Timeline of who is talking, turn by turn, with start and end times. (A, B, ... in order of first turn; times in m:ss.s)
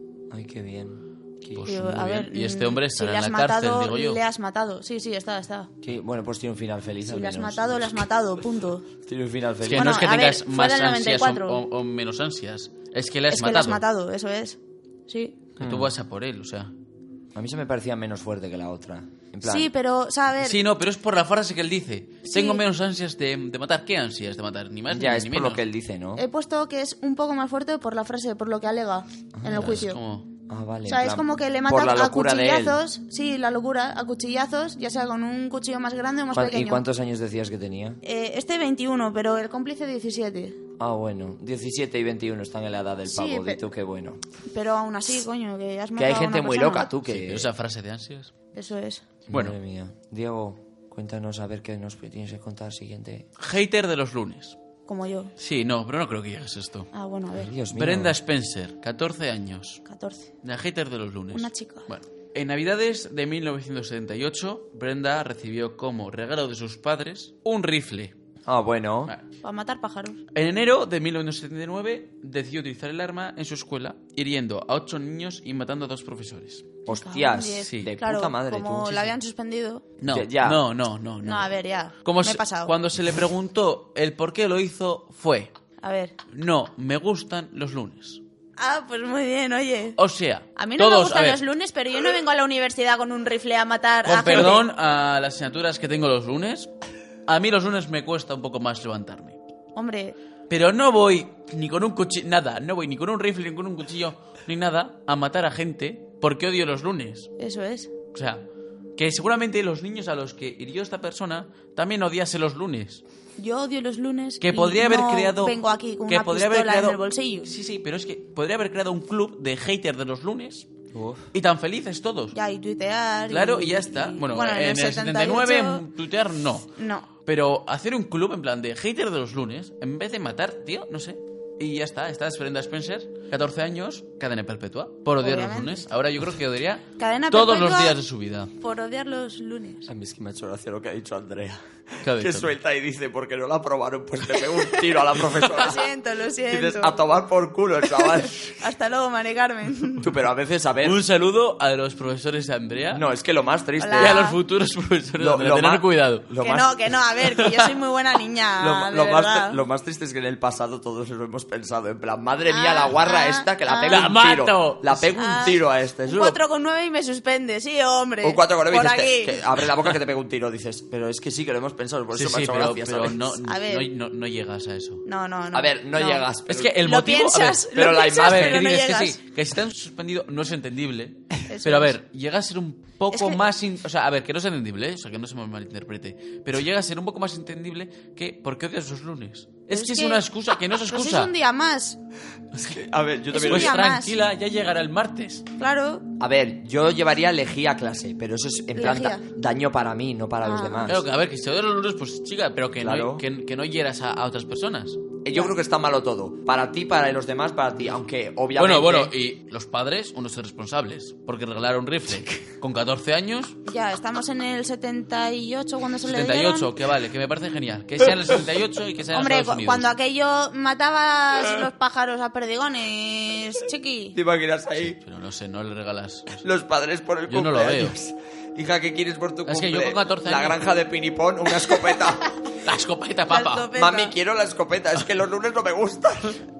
0:00.3-0:01.7 A
0:01.6-0:04.2 B
0:01.6-0:05.7 C
0:05.8-0:08.0 A
0:07.1-0:08.9 C
0:09.1-0:10.0 A
0:09.6-0:13.8 B
0:09.7-0:11.6 C
0:13.3-0:15.4 C
0:15.6-0:16.7 B
0:15.6-0:15.9 A
0:17.4-0:19.7 A
0:19.4-0:20.6 C
0:20.4-0:25.6 B
0:22.2-0:22.6 C
0:24.9-0:26.2 A
0:26.2-0:30.0 C
0:29.3-0:29.8 A
0:29.5-0:30.3 B
0:30.5-0:32.8 A
0:30.9-0:36.8 C
0:36.3-0:38.0 A
0:38.0-0:40.6 C
0:40.8-0:44.2 A
0:43.1-0:43.6 C
0:44.5-0:46.9 C
0:46.0-0:47.5 A
0:47.0-0:48.3 B
0:48.6-0:49.0 C
0:49.3-0:53.3 A
0:49.3-0:49.6 B
0:53.4-0:54.6 B
0:54.9-0:55.3 C
0:55.4-0:56.9 B
0:56.9-0:57.5 C
0:57.4-0:58.2 A
0:57.7-0:59.8 B
0:59.9-1:00.3 C
1:00.4-1:08.2 B
1:01.3-1:01.9 C
1:08.5-1:09.1 A
1:09.4-1:10.2 C
1:10.3-1:16.8 B
1:16.9-1:19.1 A
1:16.9-1:19.9 C
1:17.6-1:17.9 B
1:20.0-1:25.5 B
1:20.1-1:20.6 A
1:21.2-1:22.7 C
1:25.8-1:26.2 C
1:26.3-1:28.2 B
1:28.6-1:30.0 C
1:30.0-1:31.4 B
1:30.6-1:34.6 C
1:34.0-1:36.7 B
1:37.3-1:39.4 B
1:39.8-1:40.2 C
1:40.5-1:47.3 B
1:47.4-1:47.9 C
1:48.1-1:48.4 B
1:49.0-1:53.0 B
1:53.4-1:57.5 C
1:54.4-2:00.7 B
2:00.9-2:01.3 A
2:01.3-2:02.4 B
2:02.3-2:05.8 C
2:03.3-2:06.7 B
2:06.8-2:07.1 C
2:07.2-2:18.5 B
2:15.2-2:15.9 C
2:17.0-2:18.0 C
2:18.6-2:19.9 C
2:19.9-2:25.9 A
2:22.0-2:22.5 B
2:25.4-2:27.0 C
2:26.5-2:28.6 A
2:27.9-2:30.1 C
2:30.0-2:31.0 A
2:30.8-2:33.0 B
2:32.9-2:34.2 A
2:33.8-2:34.4 C
2:34.0-2:36.3 B
2:35.2-2:36.9 A
2:36.4-2:39.6 C
2:37.2-2:37.7 B
2:38.6-2:46.4 A
2:42.5-2:44.0 C
2:43.9-2:45.1 B
2:45.2-2:49.6 C
2:48.2-2:53.4 A
2:52.1-2:55.0 B
2:53.4-2:53.9 C
2:55.1-2:59.2 C
2:55.5-2:56.8 A
2:56.5-3:11.3 B
2:57.7-2:58.7 A
3:01.5-3:02.0 C
3:03.1-3:03.5 C
3:09.7-3:12.0 C
3:12.5-3:13.8 A
3:13.3-3:14.2 C
3:13.3-3:15.5 B
3:15.6-3:16.1 C
3:16.2-3:21.0 A
3:18.8-3:19.2 C
3:20.4-3:21.0 C
3:20.9-3:25.1 B
3:22.8-3:23.2 A
3:25.2-3:29.1 A
3:28.6-3:33.6 B
3:33.7-3:36.7 C
3:36.0-3:39.9 B
3:39.1-3:44.2 C
3:44.1-3:45.0 A
3:44.8-3:46.4 B
3:46.4-3:52.4 A
3:47.3-3:48.0 B
3:49.5-3:50.6 B
3:52.6-3:53.7 B
3:53.3-3:54.2 C
3:53.8-3:56.4 A